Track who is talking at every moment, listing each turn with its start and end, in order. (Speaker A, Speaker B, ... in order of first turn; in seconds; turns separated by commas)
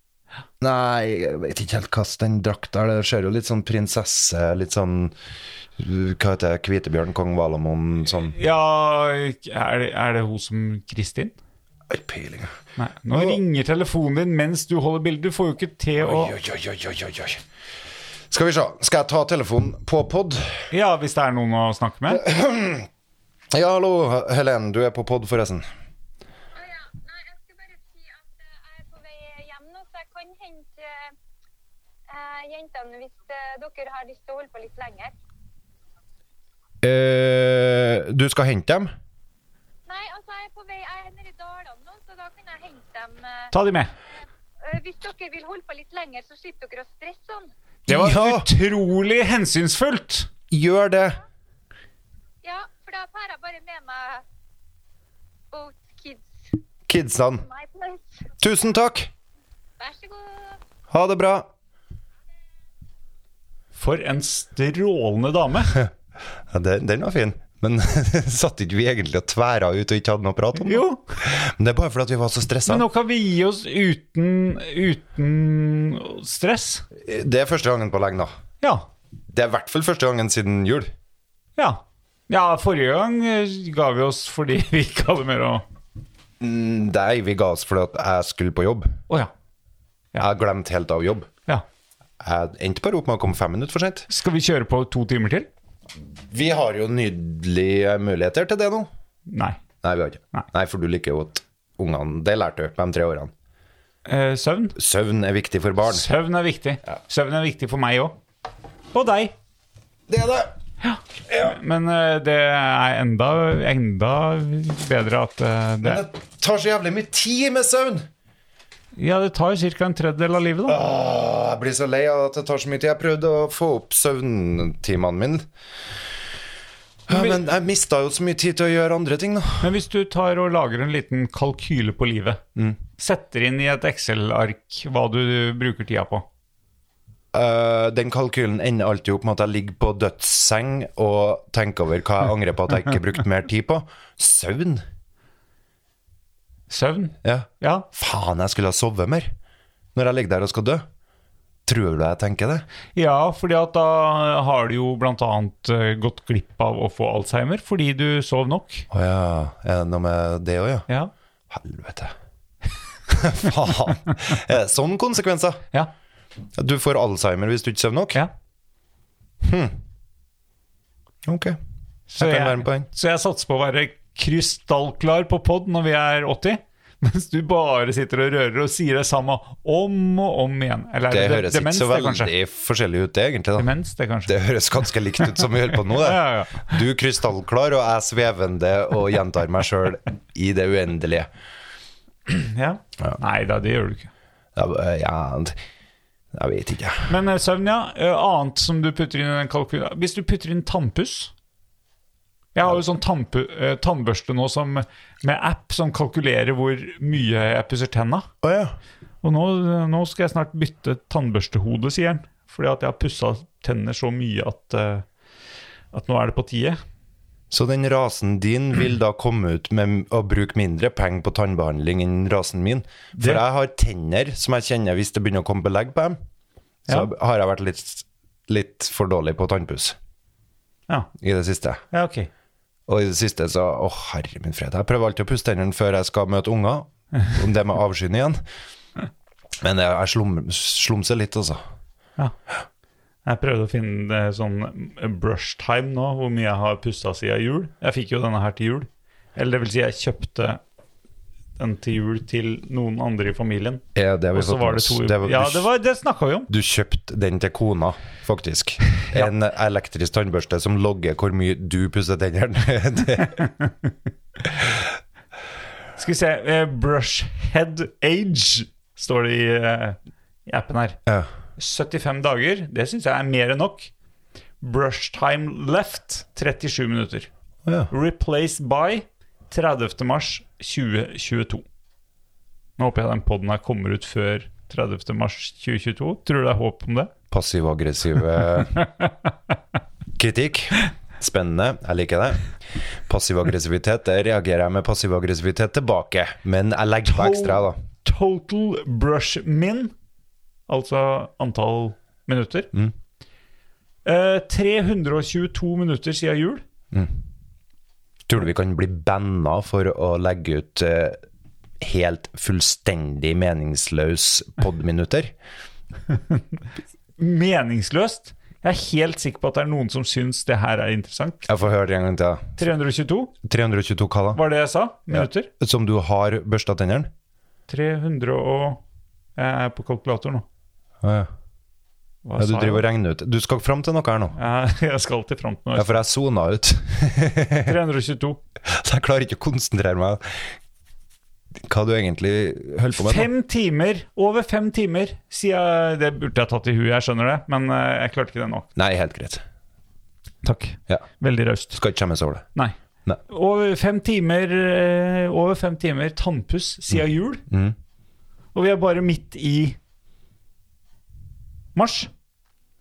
Speaker A: 0.6-5.1, Speaker A: 5.8-8.3, Speaker B: 8.3-11.3, Speaker A: 11.9-12.6, Speaker B: 12.8-16.4, Speaker A: 13.1-13.4, Speaker A: 16.0-17.4, Speaker A: 18.3-20.7, Speaker B: 20.7-22.2, Speaker A: 22.1-22.9, Speaker A: 23.5-25.6, Speaker C: 26.6-31.1, Speaker C: 32.1-35.1, Speaker A: 36.8-38.9, Speaker C: 39.9-43.5, Speaker B: 43.5-43.9, Speaker C: 44.6-47.5, Speaker A: 47.9-48.5, Speaker B: 47.9-50.3, Speaker A: 50.5-51.2, Speaker C: 52.4-54.2, Speaker C: 55.5-56.6, Speaker A: 56.9-57.5, Speaker C: 57.4-58.3, Speaker A: 58.4-59.1, Speaker C: 59.8-60.6, Speaker A: 60.9-61.5, Speaker B: 63.8-65.8, Speaker A: 66.5-72.9, Speaker B: 70.6-71.2, Speaker B: 72.7-76.9, Speaker A: 77.0-78.3, Speaker A: 79.3-80.9, Speaker B: 81.6-85.6, Speaker A: 86.4-89.0, Speaker A: 90.2-91.3, Speaker A: 92.2-94.1, Speaker B: 94.1-95.5, Speaker A: 96.2-98.9, Speaker B: 99.3-99.6, Speaker A: 99.8-103.3, Speaker B: 104.1-104.8, Speaker A: 104.8-106.0, Speaker B: 105.8-108.2, Speaker B: 108.9-109.3, Speaker A: 110.1-110.5, Speaker B: 110.8-116.0, Speaker A: 115.8-118.1, Speaker B: 119.0-120.8, Speaker A: 120.7-125.5, Speaker A: 127.1-129.7, Speaker B: 129.6-132.4, Speaker B: 133.0-136.2, Speaker A: 137.3-144.8, Speaker B: 146.7-147.9, Speaker A: 147.2-149.3, Speaker A: 149.9-150.9, Speaker A: 151.7-152.7, Speaker B: 153.0-158.9, Speaker A: 158.9-160.9, Speaker A: 161.5-162.1, Speaker A: 163.1-165.6, Speaker A: 166.6-168.2, Speaker A: 169.4-169.8, Speaker A: 171.2-171.6, Speaker B: 172.1-182.3, Speaker A: 172.1-172.9, Speaker A: 181.1-183.7, Speaker B: 183.6-184.4, Speaker A: 184.3-191.3, Speaker B: 185.9-186.8, Speaker B: 192.3-194.1, Speaker A: 194.6-195.6, Speaker A: 196.3-197.1, Speaker B: 197.1-201.3, Speaker B: 202.6-208.3, Speaker A: 208.4-208.8, Speaker B: 209.2-215.1, Speaker B: 215.9-216.8, Speaker A: 217.5-226.2, Speaker B: 223.2-223.4, Speaker A: 226.9-230.0, Speaker A: 231.2-231.8, Speaker B: 231.9-232.3, Speaker A: 232.9-238.4, Speaker A: 239.6-241.6, Speaker B: 243.2-250.6, Speaker B: 251.6-253.8, Speaker A: 253.9-255.7, Speaker B: 254.3-256.5, Speaker A: 256.5-263.4, Speaker B: 263.4-263.7, Speaker B: 266.0-271.0, Speaker B: 271.6-273.9, Speaker B: 274.6-277.3, Speaker A: 277.6-277.9, Speaker B: 277.9-281.6, Speaker B: 282.8-287.1, Speaker A: 287.3-288.8, Speaker B: 288.7-289.1, Speaker A: 290.2-297.8, Speaker B: 297.1-299.9, Speaker B: 300.7-302.7, Speaker B: 304.1-306.6, Speaker A: 308.3-311.2, Speaker A: 311.8-315.3, Speaker B: 316.1-316.4, Speaker B: 317.2-321.4, Speaker A: 321.5-322.6, Speaker B: 322.6-323.3, Speaker A: 323.4-324.4, Speaker B: 324.4-325.5, Speaker A: 325.1-327.1, Speaker B: 327.7-328.8, Speaker B: 329.4-330.4, Speaker A: 331.0-331.3, Speaker B: 332.2-332.9, Speaker A: 332.4-334.4, Speaker B: 334.4-336.0, Speaker A: 335.8-337.8, Speaker B: 337.6-338.4, Speaker A: 338.6-340.5, Speaker A: 341.6-343.3, Speaker B: 343.0-348.7, Speaker A: 348.8-349.4, Speaker B: 350.4-351.8, Speaker A: 351.8-352.5, Speaker B: 353.3-357.4, Speaker A: 357.5-357.8, Speaker B: 358.6-359.8, Speaker B: 361.8-362.1